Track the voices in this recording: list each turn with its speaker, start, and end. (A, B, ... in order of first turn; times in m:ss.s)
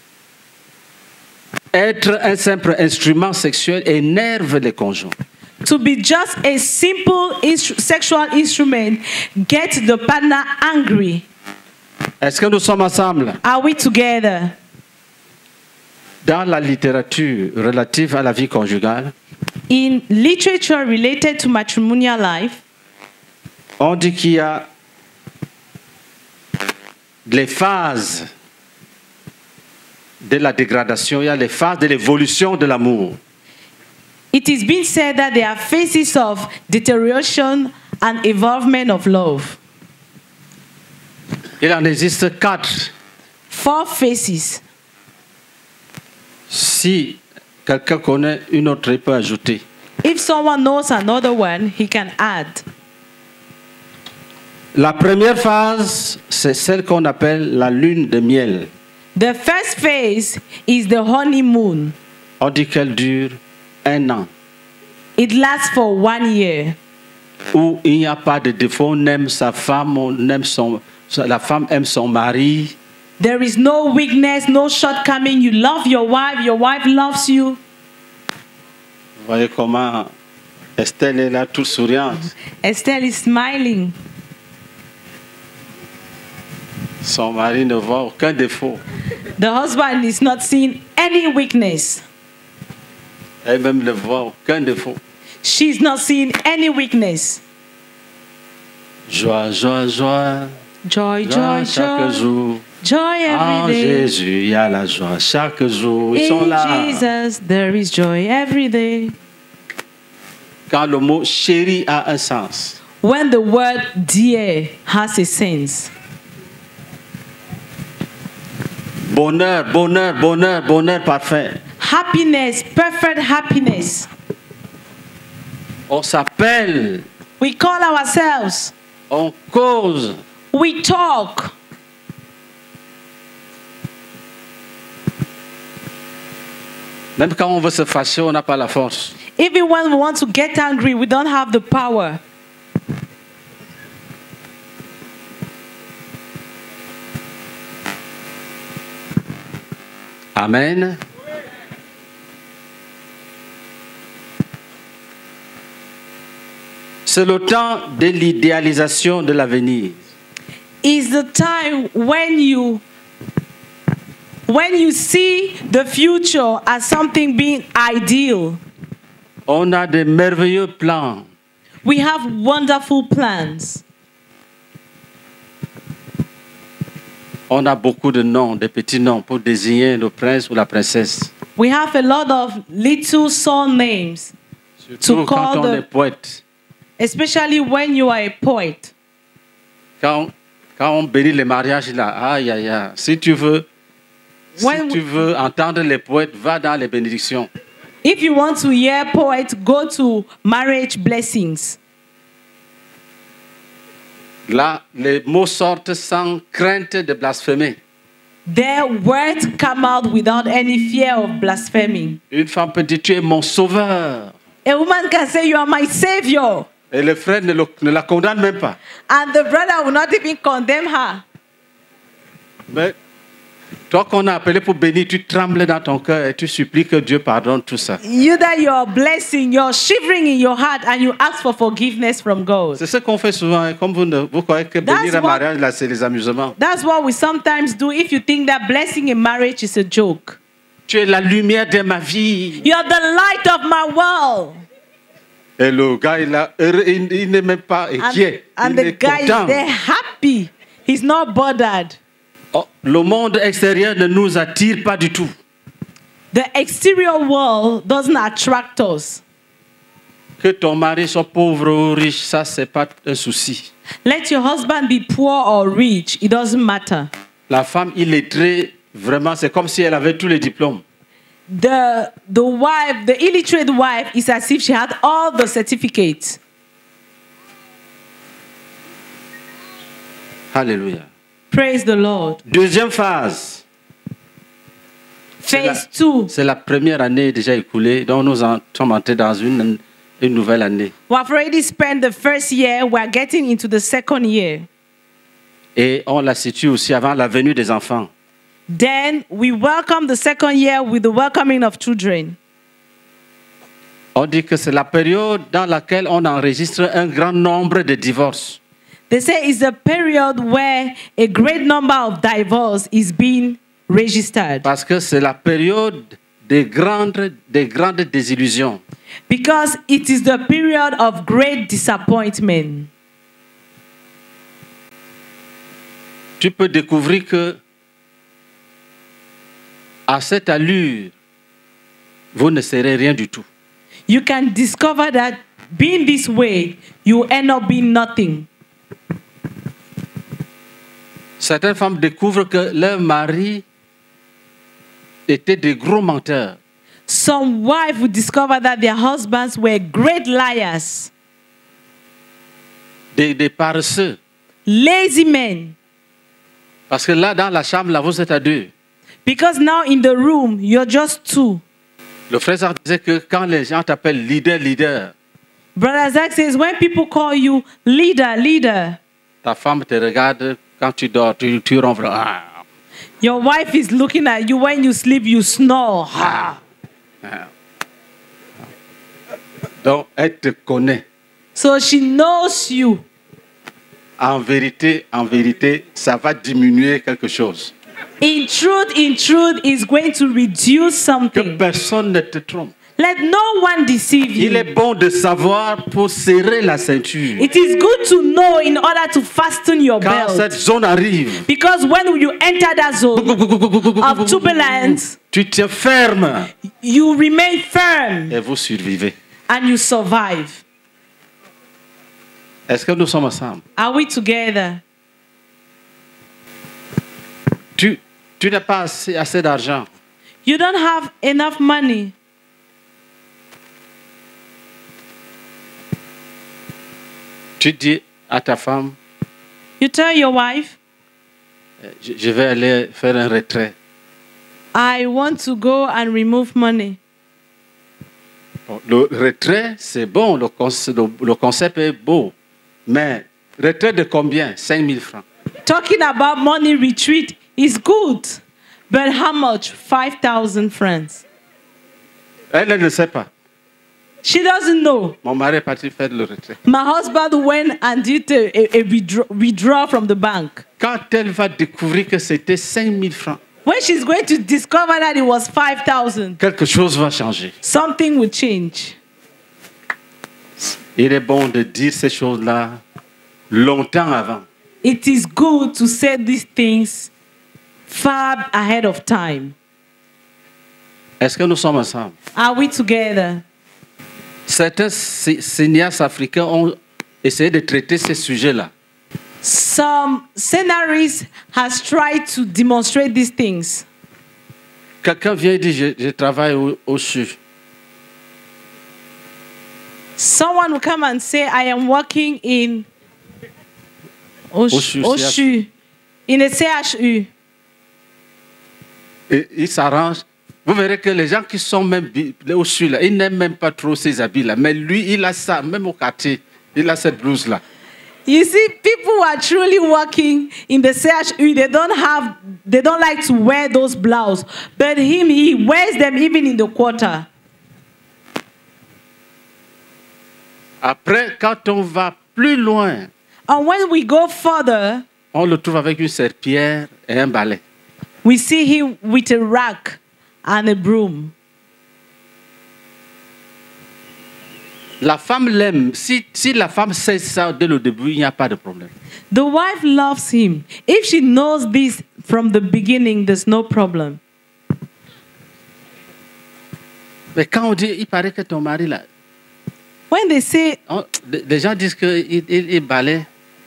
0:01.7-0:05.1 A
0:05.6-0:11.2 B
0:12.2-0:13.4 A
0:13.4-0:14.6 B
0:16.2-0:19.1 A
0:19.7-0:22.6 B
0:23.8-0:24.7 A
0:27.2-0:28.3 A
0:30.2-0:33.2 A
0:34.3-0:39.6 B
0:41.6-0:42.9 A
0:43.5-0:44.6 B
0:46.5-0:49.6 A
0:50.0-0:52.6 B
0:54.7-0:58.7 A
0:59.1-1:02.0 B
1:02.4-1:04.3 A
1:05.2-1:06.8 B
1:07.5-1:12.7 A
1:13.2-1:17.6 B
1:19.2-1:20.1 A
1:20.8-1:22.3 A
1:22.6-1:23.9 B
1:27.0-1:28.8 A
1:29.4-1:32.0 B
1:33.4-1:35.0 A
1:35.4-1:37.4 B
1:39.1-1:40.5 A
1:40.8-1:42.3 B
1:41.2-1:42.6 A
1:42.8-1:44.1 B
1:43.2-1:47.0 A
1:46.1-1:49.1 B
1:50.7-1:52.8 A
1:53.0-1:55.9 B
1:59.1-2:01.6 A
2:01.8-2:04.1 B
2:05.9-2:07.0 A
2:07.4-2:08.7 B
2:09.1-2:10.2 A
2:10.5-2:11.5 B
2:17.2-2:19.1 A
2:19.4-2:22.2 B
2:30.3-2:31.0 A
2:37.0-2:40.0 A
2:40.8-2:42.8 B
2:44.5-2:48.6 B
2:49.5-2:51.3 A
2:51.8-2:53.8 B
2:57.5-3:01.3 A
3:01.6-3:04.3 B
3:04.9-3:06.4 A
3:05.0-3:05.8 B
3:07.0-3:08.9 B
3:10.0-3:13.7 A
3:14.6-3:17.5 A
3:14.6-3:15.0 B
3:18.0-3:21.8 B
3:24.5-3:27.8 A
3:28.5-3:32.2 B
3:32.3-3:34.3 A
3:34.6-3:36.7 B
3:36.9-3:38.8 A
3:39.1-3:41.2 B
3:42.7-3:43.0 A
3:43.9-3:48.0 A
3:48.0-3:52.8 B
3:52.8-3:56.5 A
3:54.8-3:55.4 B
3:56.6-4:00.4 B
4:00.9-4:02.6 A
4:02.6-4:04.6 B
4:05.6-4:09.6 A
4:08.0-4:12.0 B
4:12.5-4:15.3 A
4:16.3-4:19.2 B
4:20.4-4:23.7 A
4:24.0-4:27.1 B
4:27.5-4:30.8 A
4:31.5-4:36.4 B
4:40.5-4:41.1 A
4:41.5-4:42.4 B
4:42.4-4:43.6 A
4:45.4-4:46.3 B
4:45.5-4:50.9 A
4:51.1-4:54.7 B
4:55.8-4:58.1 A
4:58.7-5:02.4 B
5:04.1-5:08.6 A
5:09.1-5:14.7 B
5:14.6-5:18.8 A
5:19.3-5:22.9 B
5:26.4-5:27.6 A
5:30.1-5:31.1 A
5:32.3-5:33.4 A
5:34.1-5:38.5 B
5:41.4-5:43.6 A
5:45.3-5:46.6 A
5:47.1-5:51.1 B
5:53.1-5:54.2 A
5:54.7-5:55.8 B
5:56.9-5:58.7 A
5:59.2-6:01.6 B
6:02.3-6:05.1 A
6:05.8-6:09.0 B
6:09.4-6:12.6 A
6:13.2-6:16.5 B
6:17.2-6:17.5 A
6:19.8-6:21.0 A
6:21.5-6:23.0 B
6:24.2-6:27.7 A
6:28.2-6:31.6 B
6:31.3-6:32.7 A
6:33.0-6:34.6 B
6:34.4-6:37.5 A
6:37.4-6:40.6 B
6:40.0-6:41.5 A
6:41.5-6:43.4 B
6:43.1-6:46.5 A
6:44.0-6:45.2 B
6:46.8-6:48.3 B
6:48.3-6:49.1 A
6:49.5-6:50.6 B
6:52.7-6:53.6 A
6:53.8-6:54.8 B
6:57.8-6:59.9 A
7:00.4-7:02.1 B
7:07.6-7:09.0 A
7:09.8-7:10.8 B
7:11.8-7:13.7 A
7:14.7-7:17.0 B
7:18.7-7:22.3 A
7:22.8-7:25.2 A
7:25.6-7:31.2 B
7:32.5-7:33.3 A
7:34.2-7:35.2 B
7:35.2-7:36.6 A
7:36.6-7:40.6 B
7:40.8-7:43.4 A
7:43.6-7:46.4 B
7:46.4-7:47.5 A
7:47.6-7:49.0 B
7:50.9-7:52.8 A
7:53.5-7:54.4 A
7:54.8-7:57.1 B
7:57.9-7:59.5 B
8:01.2-8:02.1 A
8:02.3-8:03.4 B
8:04.5-8:08.7 A
8:09.4-8:13.8 B
8:15.0-8:17.4 A
8:20.2-8:22.9 B
8:24.5-8:25.7 B
8:24.7-8:25.5 A
8:26.3-8:27.3 B
8:29.3-8:37.6 A
8:38.2-8:47.3 B
8:50.8-8:53.1 A
8:53.5-8:55.0 B
8:55.3-8:57.6 A
8:58.2-9:01.3 B
9:05.0-9:08.9 A
9:09.3-9:14.2 B
9:17.3-9:19.0 A
9:20.1-9:20.8 B
9:20.9-9:23.3 A